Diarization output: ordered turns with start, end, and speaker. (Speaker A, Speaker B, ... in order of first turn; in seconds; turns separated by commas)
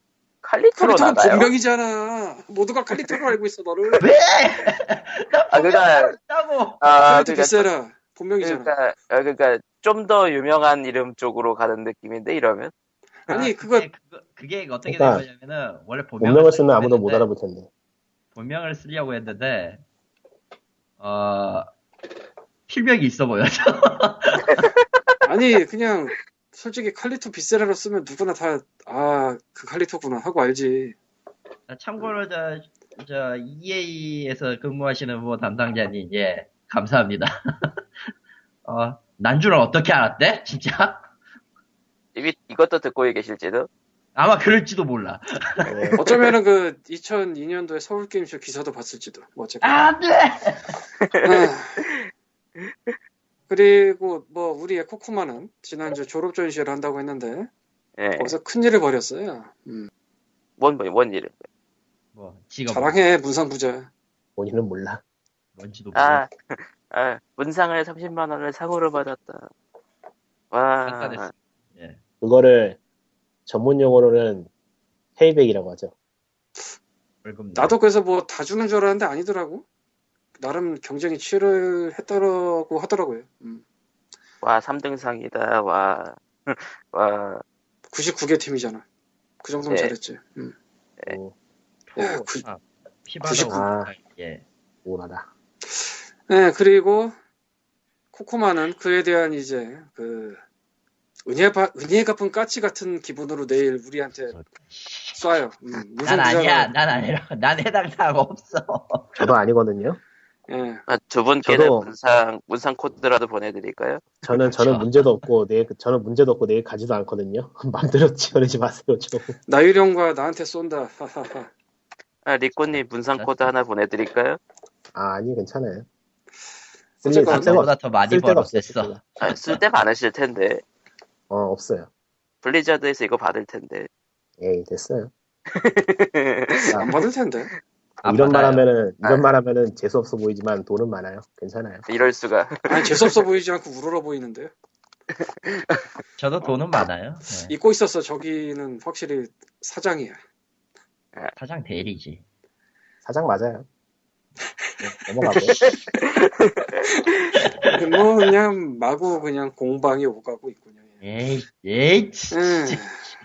Speaker A: 0.4-1.5, Speaker B: 0.8-4.0, Speaker C: 4.0-7.0, Speaker A: 5.5-6.2, Speaker A: 6.8-7.7, Speaker B: 7.0-8.7, Speaker A: 8.4-12.7, Speaker B: 13.3-13.9, Speaker C: 13.3-17.2, Speaker D: 14.8-15.2, Speaker D: 16.2-17.7, Speaker C: 18.3-19.8, Speaker C: 21.0-21.7, Speaker C: 22.7-24.6, Speaker B: 25.2-30.9, Speaker C: 31.7-37.7, Speaker C: 38.6-41.0, Speaker A: 42.1-43.7, Speaker C: 44.1-46.0, Speaker D: 45.7-46.0, Speaker B: 46.0-49.8, Speaker C: 49.6-50.7, Speaker A: 51.0-51.3, Speaker B: 51.2-51.7, Speaker A: 52.6-52.9, Speaker B: 53.5-57.5, Speaker A: 58.0-58.4, Speaker B: 58.2-59.9, Speaker A: 60.6-61.5, Speaker C: 62.1-63.0, Speaker B: 62.7-63.9, Speaker D: 64.4-65.0, Speaker C: 65.6-66.2, Speaker A: 65.9-69.5, Speaker A: 70.5-71.3, Speaker C: 70.8-72.0, Speaker D: 72.2-72.8, Speaker D: 73.5-74.5, Speaker D: 75.2-75.9, Speaker C: 77.2-77.8, Speaker B: 77.5-79.6, Speaker B: 80.4-83.6, Speaker A: 84.4-87.4, Speaker B: 87.9-88.8, Speaker B: 89.4-90.5, Speaker A: 89.7-89.9, Speaker D: 91.0-91.3, Speaker C: 91.9-94.4, Speaker B: 92.0-92.4, Speaker B: 93.2-93.6, Speaker D: 93.5-93.9, Speaker D: 94.8-95.3, Speaker B: 96.3-97.1, Speaker B: 98.1-100.4, Speaker B: 101.2-104.3, Speaker C: 104.3-105.4, Speaker B: 105.1-106.7, Speaker C: 106.0-109.3, Speaker D: 109.2-110.0, Speaker B: 110.5-110.8, Speaker A: 110.9-114.1, Speaker D: 111.4-111.9, Speaker D: 114.2-119.3, Speaker C: 114.5-115.1, Speaker B: 119.5-121.5, Speaker A: 122.2-124.4, Speaker C: 122.6-123.5, Speaker D: 124.9-125.8, Speaker B: 127.0-127.6, Speaker D: 127.0-129.0, Speaker C: 127.3-129.6, Speaker A: 129.2-130.6, Speaker D: 131.3-131.9, Speaker A: 132.4-133.9, Speaker D: 134.4-135.1, Speaker A: 135.5-136.9, Speaker B: 136.8-137.5, Speaker C: 138.0-138.6, Speaker D: 138.0-141.8, Speaker A: 141.8-143.2, Speaker B: 142.7-144.5, Speaker A: 145.1-145.8, Speaker C: 146.2-147.5, Speaker B: 147.4-150.2, Speaker C: 151.3-152.2, Speaker D: 153.0-153.7, Speaker D: 154.8-155.6, Speaker A: 155.5-157.3, Speaker B: 157.7-160.9, Speaker C: 161.0-163.0, Speaker B: 162.3-163.1